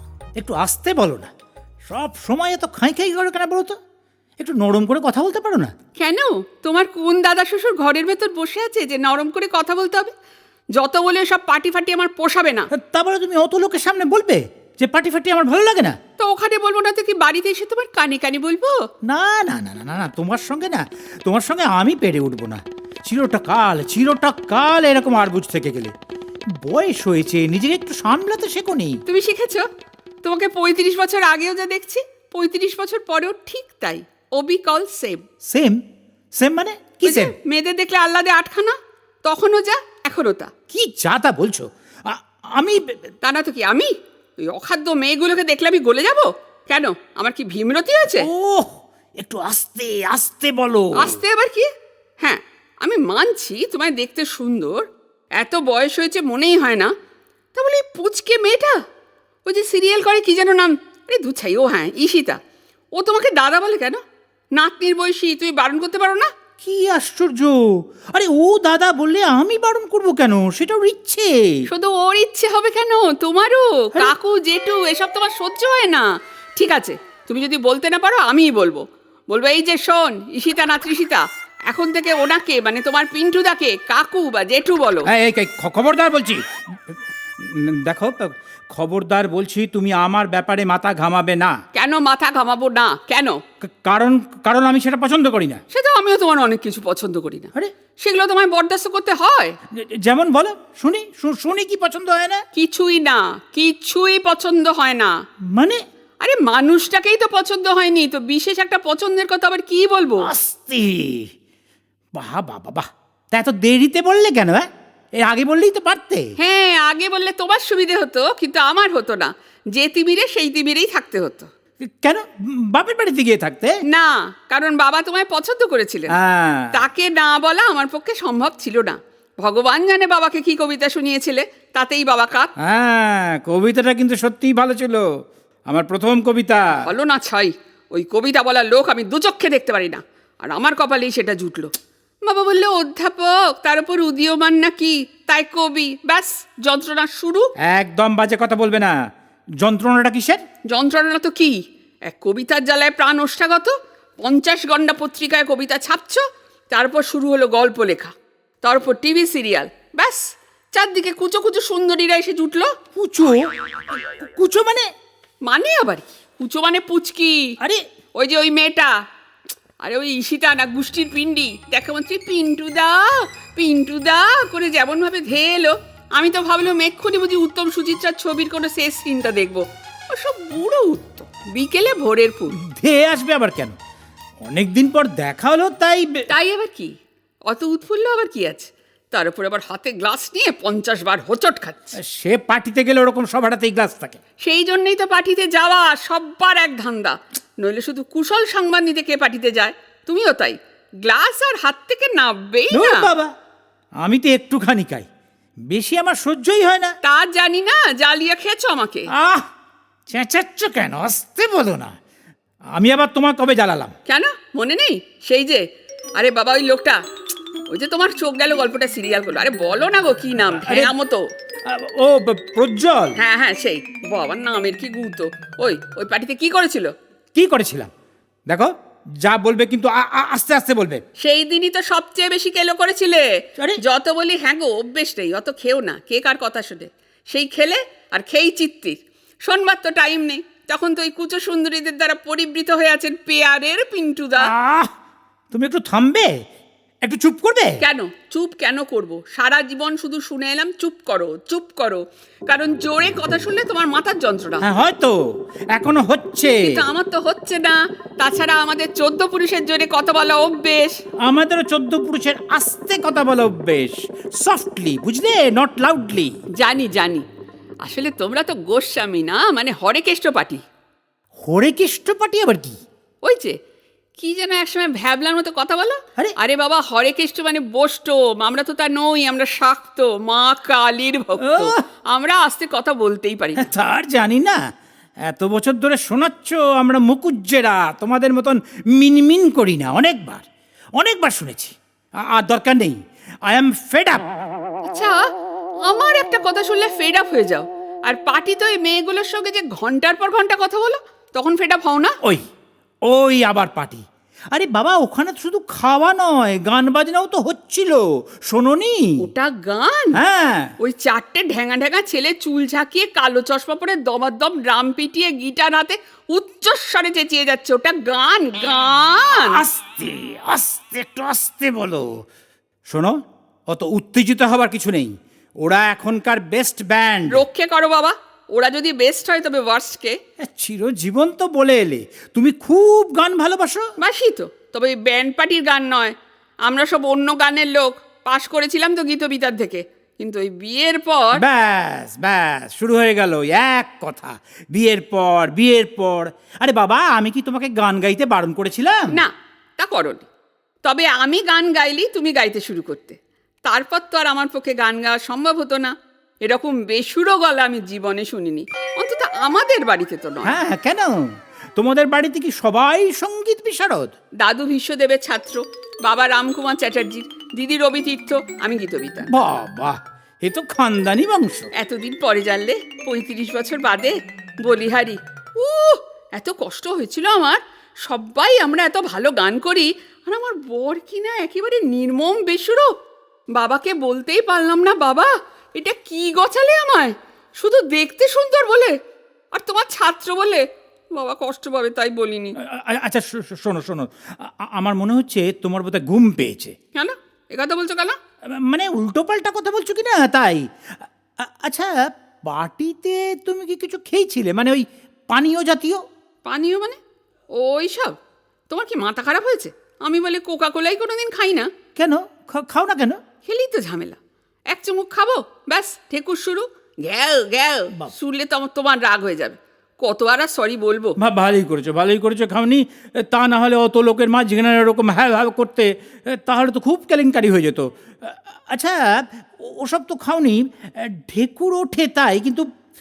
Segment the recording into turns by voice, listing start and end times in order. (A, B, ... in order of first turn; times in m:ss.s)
0:00.4-0:01.3 A
0:01.9-0:03.8 A
0:04.4-0:05.7 A
0:06.0-0:10.1 B
0:10.7-0:12.7 B
0:12.7-0:16.0 A
0:16.2-0:18.8 B
0:19.0-0:25.9 A
0:26.6-0:29.0 A
0:29.1-0:29.7 B
0:30.2-0:35.2 B
0:35.5-0:35.8 A
0:36.4-0:37.3 A
0:37.0-0:40.5 B
0:40.7-0:43.0 A
0:43.2-0:43.9 B
0:44.4-0:48.3 B
0:48.2-0:51.2 A
0:50.9-0:51.7 B
0:52.2-0:54.8 B
0:55.4-0:56.9 B
0:57.6-0:58.8 B
0:59.5-1:02.4 B
1:03.0-1:04.0 B
1:04.6-1:06.3 B
1:06.6-1:11.6 A
1:11.7-1:25.1 B
1:25.1-1:31.6 A
1:31.7-1:33.4 B
1:33.6-1:35.6 A
1:35.7-1:39.6 B
1:39.7-1:42.4 A
1:42.5-1:45.1 B
1:45.5-1:45.8 A
1:46.2-1:50.3 B
1:50.2-1:51.3 A
1:52.1-1:54.7 A
1:55.2-1:56.3 A
1:56.4-2:01.5 B
2:01.8-2:03.8 A
2:03.9-2:06.1 B
2:06.1-2:06.8 A
2:06.7-2:12.5 B
2:12.6-2:15.0 A
2:15.7-2:16.6 A
2:16.8-2:21.7 B
2:22.3-2:27.5 B
2:27.6-2:29.0 A
2:29.6-2:30.4 A
2:30.7-2:42.7 B
2:43.0-2:43.4 A
2:44.2-2:44.9 A
2:45.4-2:47.5 B
2:48.2-2:49.0 B
2:49.8-3:02.5 B
3:02.6-3:03.8 A
3:04.4-3:06.3 A
3:06.3-3:06.9 B
3:07.5-3:12.0 B
3:12.0-3:14.2 A
3:14.4-3:23.1 B
3:22.7-3:23.3 A
3:24.0-3:25.1 A
3:25.7-3:27.0 A
3:27.0-3:29.1 B
3:29.1-3:29.5 A
3:30.1-3:32.0 A
3:32.8-3:33.9 A
3:34.1-3:35.6 B
3:36.2-3:37.0 B
3:37.7-3:41.2 B
3:40.6-3:40.9 A
3:41.7-3:43.2 A
3:43.2-3:46.9 B
3:47.3-3:47.9 A
3:49.2-3:51.0 A
3:51.2-3:53.3 B
3:53.8-4:04.5 B
4:04.4-4:04.9 A
4:05.5-4:06.3 A
4:07.0-4:07.8 A
4:07.8-4:14.6 B
4:14.6-4:15.2 A
4:15.7-4:16.9 A
4:16.6-4:21.0 B
4:21.2-4:26.4 A
4:26.6-4:27.2 B
4:27.8-4:30.6 B
4:31.4-4:32.8 A
4:33.2-4:33.6 B
4:34.2-4:43.6 B
4:41.4-4:41.8 A
4:43.6-4:44.6 A
4:45.2-4:50.4 A
4:51.0-4:51.7 A
4:52.3-4:54.2 A
4:54.9-4:55.2 B
4:55.8-5:02.2 B
5:03.0-5:09.3 A
5:09.2-5:10.2 B
5:10.2-5:10.7 A
5:10.8-5:19.6 B
5:19.3-5:22.2 A
5:22.9-5:27.4 A
5:27.3-5:30.2 B
5:30.4-5:33.9 A
5:34.0-5:36.1 B
5:36.6-5:41.4 B
5:41.3-5:49.2 A
5:49.1-5:50.3 B
5:50.8-5:55.9 B
5:56.4-6:00.6 B
6:00.4-6:04.1 A
6:04.4-6:09.3 B
6:09.3-6:11.7 A
6:11.7-6:22.9 B
6:23.5-6:29.0 B
6:29.5-6:30.6 B
6:31.1-6:32.6 B
6:32.6-6:36.8 A
6:36.9-6:38.2 B
6:38.5-6:46.0 A
6:46.4-6:47.0 B
6:47.6-6:48.2 B
6:48.7-6:51.7 B
6:52.0-6:53.2 A
6:53.4-6:54.2 B
6:54.7-7:01.2 B
7:01.2-7:12.7 A